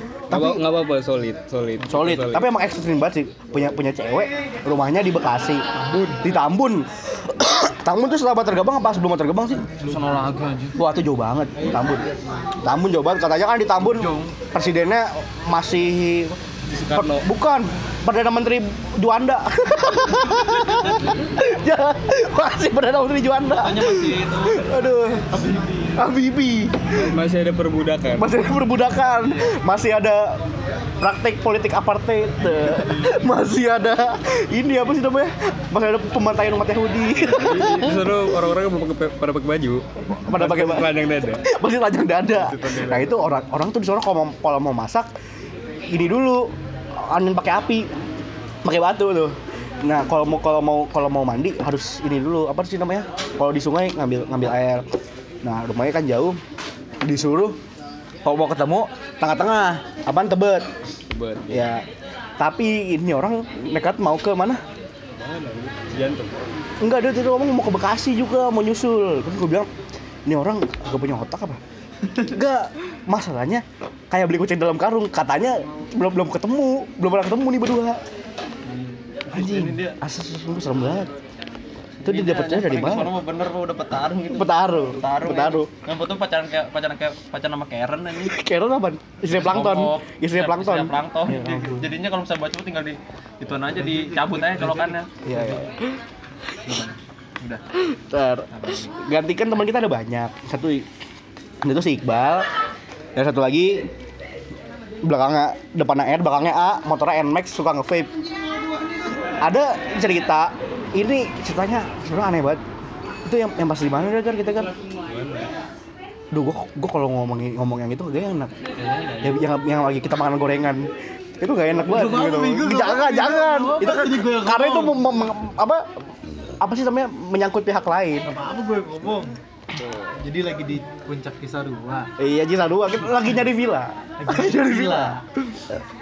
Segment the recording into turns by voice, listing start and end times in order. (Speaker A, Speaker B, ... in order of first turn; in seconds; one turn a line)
Speaker A: 0.3-0.7
Speaker B: 0.3-2.5
Speaker A: 1.9-5.7
Speaker C: 5.8-6.2
Speaker A: 6.2-9.8
Speaker D: 9.8-10.8
Speaker C: 9.8-10.2
Speaker A: 10.8-12.1
Speaker C: 11.6-12.5
Speaker A: 12.6-16.4
Speaker D: 13.8-14.4
Speaker B: 16.7-17.2
Speaker A: 16.9-25.3
Speaker D: 23.6-26.1
Speaker A: 26.0-27.1
Speaker B: 26.9-28.3
Speaker A: 28.2-30.4
Speaker D: 29.2-29.5
Speaker A: 31.0-38.2
Speaker D: 32.6-32.9
Speaker B: 37.2-41.5
Speaker A: 40.1-40.9
Speaker A: 41.5-45.1
Speaker B: 42.3-43.2
Speaker A: 45.9-47.9
Speaker A: 48.6-54.9
Speaker A: 55.4-56.4
Speaker A: 57.0-57.6
Speaker A: 58.2-60.7
Speaker B: 61.1-61.8
Speaker A: 61.5-61.9
Speaker A: 62.4-64.6
Speaker B: 65.2-66.4
Speaker A: 66.8-69.7
Speaker A: 70.3-71.6
Speaker A: 72.2-78.0
Speaker D: 78.7-80.0
Speaker A: 79.3-81.1
Speaker D: 82.0-88.4
Speaker A: 82.0-83.1
Speaker A: 84.3-85.7
Speaker A: 88.2-91.9
Speaker D: 89.3-95.6
Speaker C: 93.8-95.6
Speaker A: 95.2-95.7
Speaker D: 96.7-97.6
Speaker A: 97.8-100.9
Speaker D: 98.5-98.9
Speaker A: 101.6-102.5
Speaker A: 103.2-103.9
Speaker A: 105.0-108.1
Speaker A: 109.4-112.6
Speaker A: 113.3-114.7
Speaker B: 115.1-115.5
Speaker A: 116.3-118.5
Speaker A: 119.2-120.9
Speaker A: 121.4-125.9
Speaker C: 121.7-125.2
Speaker A: 126.6-128.3
Speaker C: 128.2-129.4
Speaker B: 129.8-130.2
Speaker C: 130.2-132.1
Speaker A: 132.2-135.8
Speaker C: 134.2-135.2